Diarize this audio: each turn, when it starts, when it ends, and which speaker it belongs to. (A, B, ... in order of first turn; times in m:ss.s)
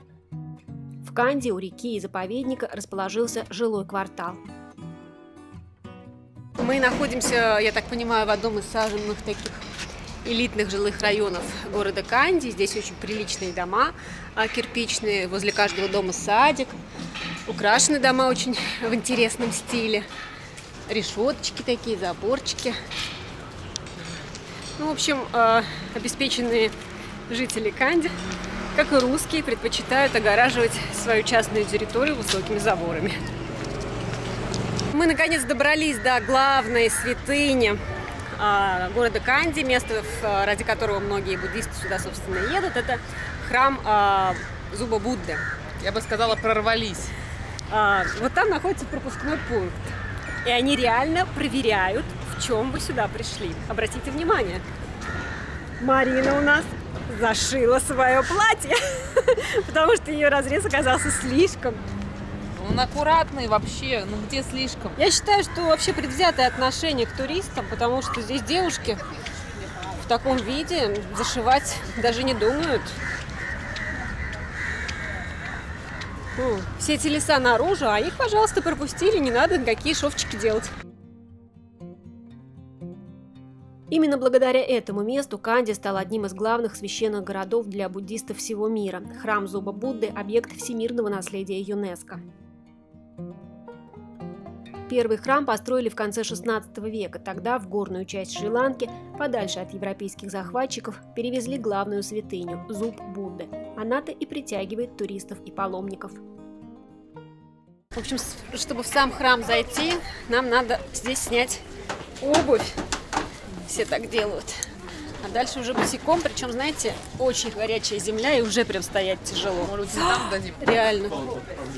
0:01.0-0:04.4 A
0:06.6-0:09.6 B
0:10.2-0:16.8 B
0:17.5-0:20.1 B
0:20.9-0:22.8 B
0:24.8-0:26.7 B
0:27.3-0:28.2 B
0:28.7-0:33.2 B
0:34.9-0:37.8 B
0:38.4-0:45.4 B
0:45.8-0:47.1 C
0:47.7-0:49.9 B
0:50.4-0:54.6 B
0:55.8-1:01.9 B
1:02.6-1:05.0 C
1:05.0-1:09.0 B
1:10.0-1:13.0 B
1:16.4-1:20.7 B
1:23.9-1:32.2 A
1:34.9-1:46.2 A
1:47.9-1:51.6 B
1:52.2-1:52.8 B
1:53.6-1:54.7 B
1:55.2-2:01.4 B
1:59.7-2:00.6 C